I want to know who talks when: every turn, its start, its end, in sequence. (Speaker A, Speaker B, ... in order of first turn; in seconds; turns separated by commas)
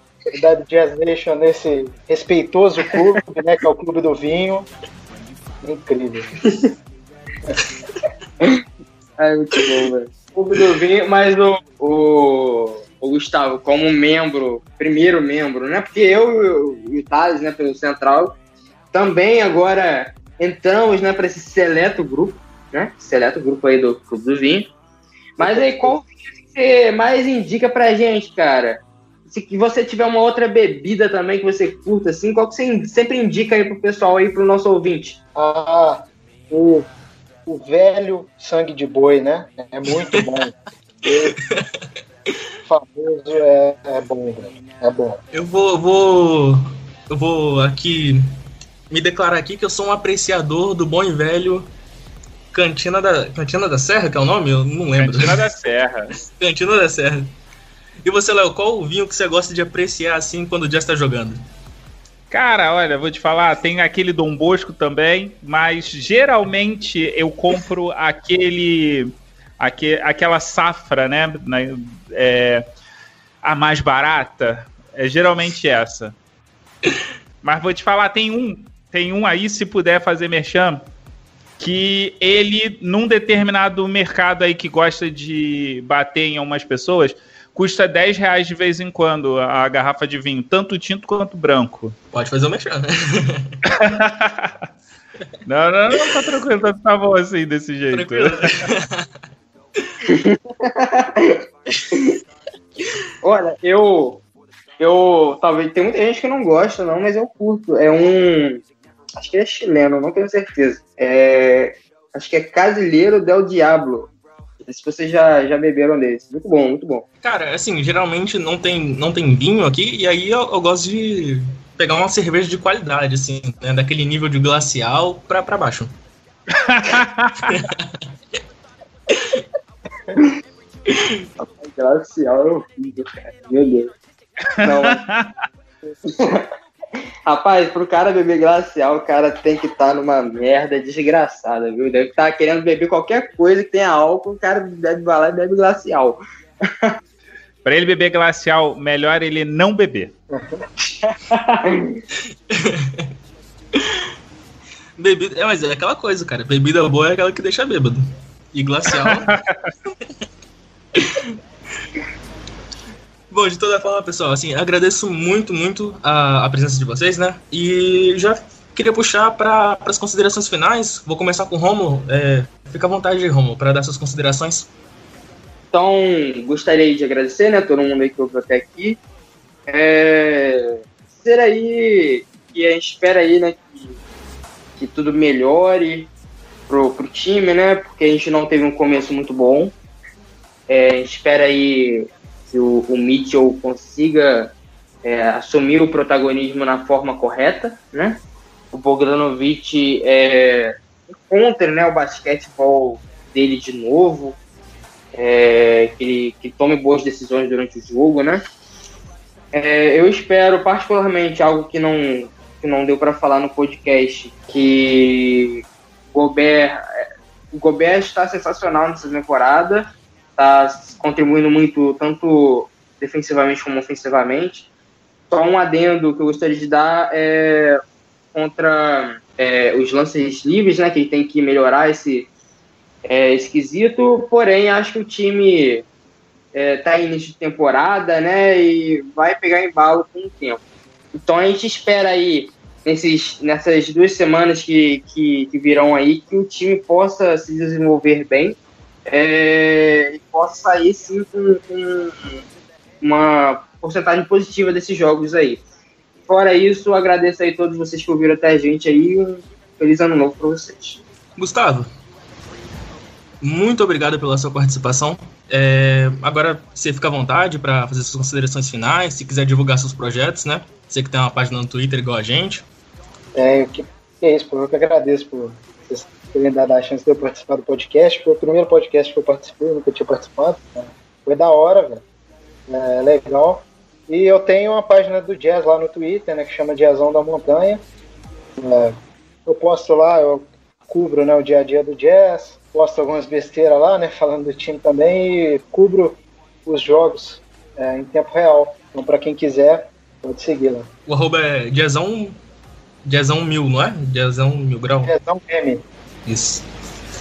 Speaker A: 0.3-4.7, Speaker A: 5.6-6.4, Speaker B: 9.2-18.4, Speaker B: 18.9-24.7, Speaker A: 25.4-26.0, Speaker B: 25.4-35.2, Speaker A: 35.4-36.9, Speaker A: 37.5-41.4, Speaker C: 39.9-40.3, Speaker C: 41.1-41.7, Speaker A: 42.7-45.2, Speaker C: 45.3-48.3, Speaker C: 48.9-51.7, Speaker C: 52.5-55.5, Speaker D: 55.0-56.1, Speaker C: 56.2-57.3, Speaker C: 58.0-61.5, Speaker D: 62.3-72.7, Speaker D: 73.4-76.2, Speaker D: 77.4-80.8, Speaker D: 81.6-92.0, Speaker C: 92.1-93.6, Speaker D: 93.7-94.5, Speaker D: 95.5-98.7, Speaker C: 97.9-99.1, Speaker B: 100.1-101.4, Speaker B: 103.2-104.2, Speaker B: 104.8-108.6, Speaker B: 109.2-114.1, Speaker B: 114.7-117.0, Speaker C: 117.2-125.9, Speaker D: 126.5-127.7, Speaker C: 127.5-127.9, Speaker C: 129.1-129.4, Speaker B: 131.4-133.9, Speaker D: 134.6-135.3, Speaker B: 134.6-135.0, Speaker B: 136.1-136.5, Speaker B: 137.3-146.9, Speaker D: 147.7-150.1, Speaker A: 150.3-150.7, Speaker B: 151.1-152.0, Speaker C: 152.5-153.1, Speaker C: 153.7-154.1, Speaker C: 155.0-159.3, Speaker D: 158.9-159.7, Speaker C: 160.9-161.3, Speaker C: 163.3-174.7, Speaker B: 175.7-179.0, Speaker B: 179.7-184.0, Speaker B: 184.8-186.1, Speaker B: 186.7-189.8, Speaker B: 190.7-204.4, Speaker B: 205.1-208.4, Speaker B: 209.5-216.8, Speaker B: 217.5-224.7, Speaker B: 225.3-227.8, Speaker B: 228.3-232.3, Speaker B: 233.1-235.9, Speaker B: 236.5-240.6, Speaker B: 241.1-252.4, Speaker B: 253.0-255.6, Speaker B: 256.3-261.0, Speaker C: 261.4-261.9, Speaker C: 263.4-272.6, Speaker A: 273.4-282.0, Speaker A: 282.7-287.8, Speaker A: 288.6-300.9, Speaker C: 301.1-302.4, Speaker C: 303.1-305.1, Speaker A: 305.0-305.9, Speaker C: 306.3-306.6